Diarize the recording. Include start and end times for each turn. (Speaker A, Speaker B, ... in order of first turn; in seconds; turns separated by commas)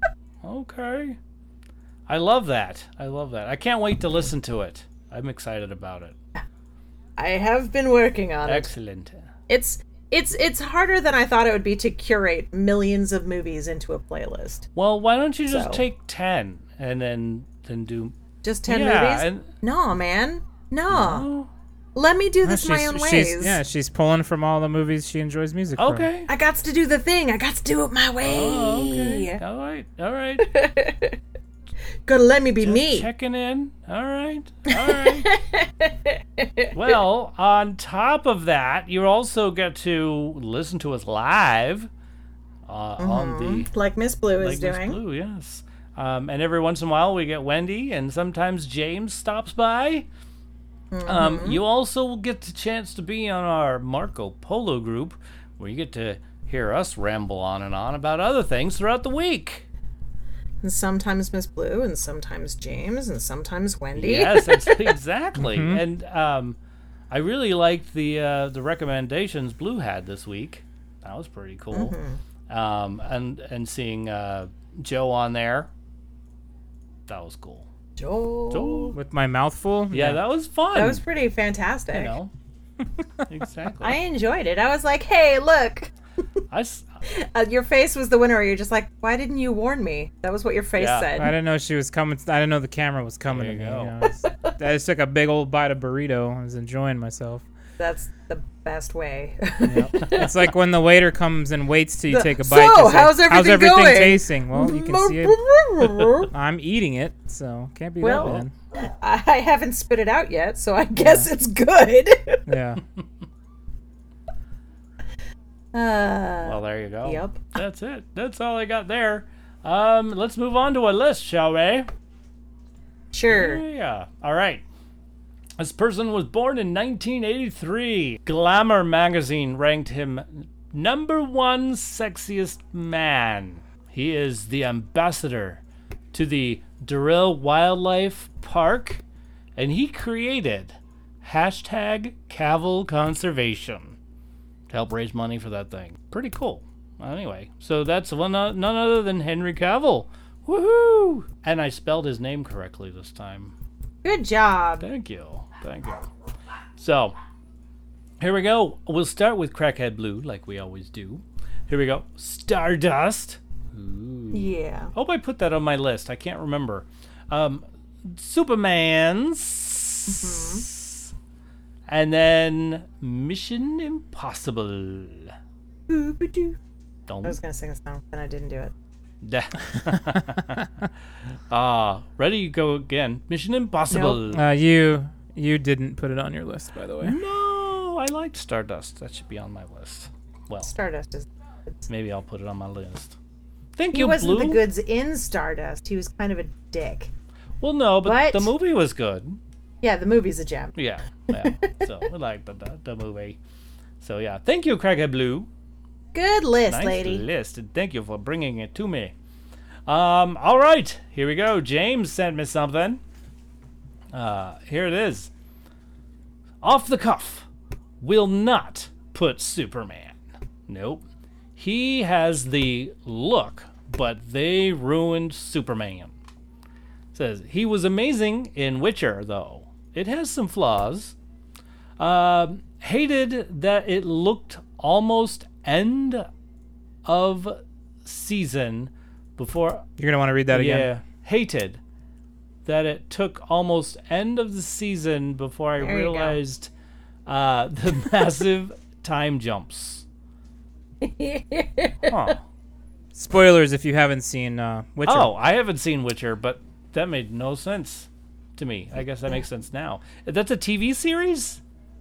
Speaker A: 0.4-1.2, Speaker A: 2.1-6.2, Speaker B: 7.2-8.7, Speaker A: 8.5-9.2, Speaker B: 9.5-14.7, Speaker A: 14.8-18.1, Speaker B: 15.5-15.8, Speaker B: 18.4-21.3, Speaker A: 18.7-19.5, Speaker A: 20.9-21.5, Speaker B: 21.9-23.6, Speaker C: 22.4-26.1, Speaker A: 25.8-26.3, Speaker B: 26.3-29.4, Speaker A: 28.2-30.5, Speaker B: 30.4-31.2, Speaker B: 32.1-33.1, Speaker A: 32.6-35.3, Speaker B: 34.7-37.0, Speaker A: 36.7-41.9, Speaker A: 42.7-43.7, Speaker B: 43.0-45.0, Speaker A: 44.4-50.1, Speaker B: 50.9-51.6, Speaker A: 51.1-59.6, Speaker B: 60.6-64.9, Speaker A: 64.0-66.6, Speaker C: 65.4-65.8, Speaker A: 67.1-72.0, Speaker B: 71.7-72.2, Speaker A: 72.5-75.7, Speaker A: 77.1-77.7, Speaker B: 78.0-79.0, Speaker A: 78.5-79.0, Speaker C: 79.0-80.2, Speaker A: 79.9-81.0, Speaker B: 80.7-82.1, Speaker A: 81.9-82.3, Speaker A: 83.3-84.0, Speaker B: 83.8-85.9, Speaker A: 86.5-86.9, Speaker B: 87.1-91.3, Speaker A: 90.8-91.1, Speaker C: 91.2-97.5, Speaker A: 93.3-94.0, Speaker B: 94.1-94.5, Speaker B: 97.8-100.3, Speaker C: 99.7-105.4, Speaker A: 100.0-100.3, Speaker B: 102.1-106.3, Speaker C: 106.3-108.5, Speaker B: 108.0-112.5, Speaker C: 111.0-111.3, Speaker C: 112.5-112.8, Speaker B: 115.7-117.5, Speaker A: 116.4-121.9, Speaker B: 123.1-123.6, Speaker A: 123.3-124.6, Speaker A: 125.6-135.6, Speaker A: 136.1-139.0, Speaker A: 139.6-144.0, Speaker A: 144.7-153.5, Speaker B: 154.0-154.9, Speaker A: 154.8-156.1, Speaker A: 156.8-157.2, Speaker A: 158.2-171.1, Speaker B: 164.3-164.9, Speaker B: 170.1-170.7, Speaker A: 171.9-175.3, Speaker B: 175.9-176.6, Speaker A: 177.1-177.4, Speaker B: 177.2-178.7, Speaker A: 179.2-180.7, Speaker A: 181.5-184.4, Speaker B: 183.9-184.2, Speaker C: 184.3-187.2, Speaker A: 187.0-190.7, Speaker B: 190.6-191.3, Speaker A: 191.9-193.2, Speaker A: 193.8-194.6, Speaker B: 193.9-197.1, Speaker A: 197.6-199.4, Speaker B: 198.0-198.5, Speaker B: 199.8-200.8, Speaker A: 200.8-203.4, Speaker B: 201.3-201.9, Speaker A: 204.0-205.5, Speaker B: 206.1-207.2, Speaker A: 206.7-209.1, Speaker A: 209.9-213.0, Speaker A: 214.1-215.3, Speaker A: 216.6-217.5, Speaker A: 218.0-220.2, Speaker A: 220.7-221.0, Speaker A: 221.6-226.1, Speaker A: 227.1-231.2, Speaker A: 232.0-236.3, Speaker A: 237.1-239.8, Speaker C: 240.0-240.9, Speaker A: 240.5-241.8, Speaker A: 242.7-246.7, Speaker B: 245.8-246.4, Speaker A: 247.3-250.1, Speaker B: 251.0-252.3, Speaker A: 252.1-252.4, Speaker C: 253.1-255.3, Speaker A: 255.1-261.6